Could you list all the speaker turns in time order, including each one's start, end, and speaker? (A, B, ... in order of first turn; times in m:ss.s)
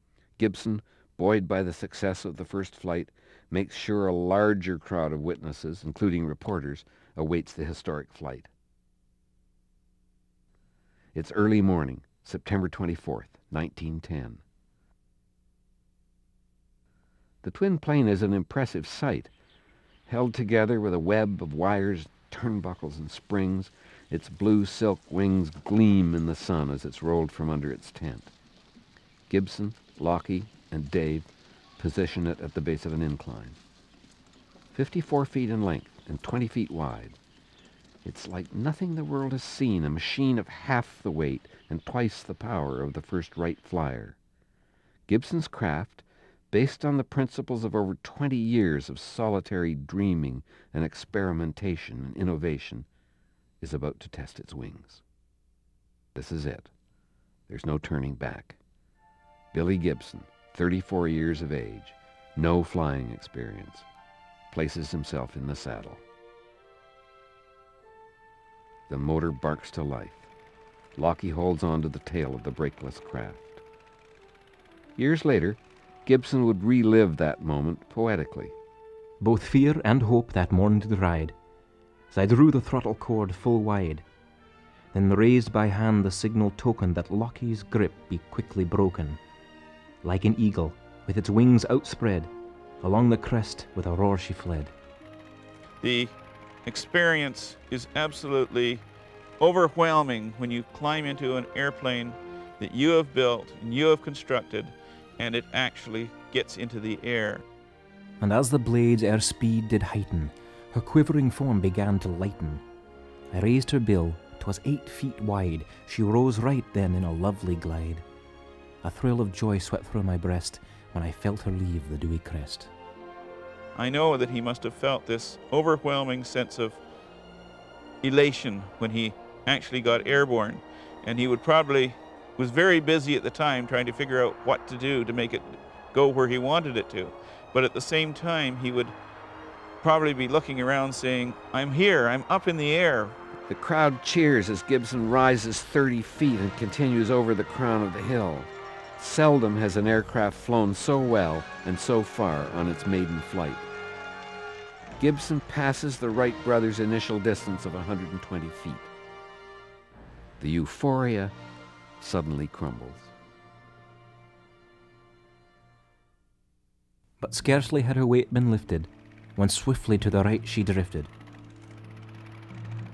0:00.4-0:08.5 A
0:11.1-0:14.4 A
0:17.4-0:19.3 A
0:20.1-0:28.3 A
0:29.3-0:33.6 A
0:34.7-0:37.2 A
0:38.0-0:44.2 A
0:45.1-0:52.9 A
0:53.6-0:55.0 A
0:56.1-0:56.7 A
0:57.5-0:58.6 A
0:59.5-1:03.8 A
1:04.5-1:06.0 A
1:08.9-1:10.3 A
1:11.0-1:13.6 A
1:15.0-1:18.5 A
1:19.2-1:21.3 B
1:22.1-1:24.0 B
1:24.9-1:29.2 B
1:30.0-1:32.3 B
1:32.8-1:34.7 B
1:35.8-1:36.1 C
1:36.6-1:38.8 C
1:39.4-1:47.4 C
1:48.2-1:52.6 B
1:53.3-1:58.0 B
1:58.8-2:02.7 B
2:03.7-2:06.8 C
2:08.0-2:18.9 C
2:19.8-2:23.1 C
2:23.5-2:33.7 A
2:35.0-2:38.9 A
2:40.4-2:41.3 A
2:42.0-2:43.1 A
2:47.2-2:51.1 B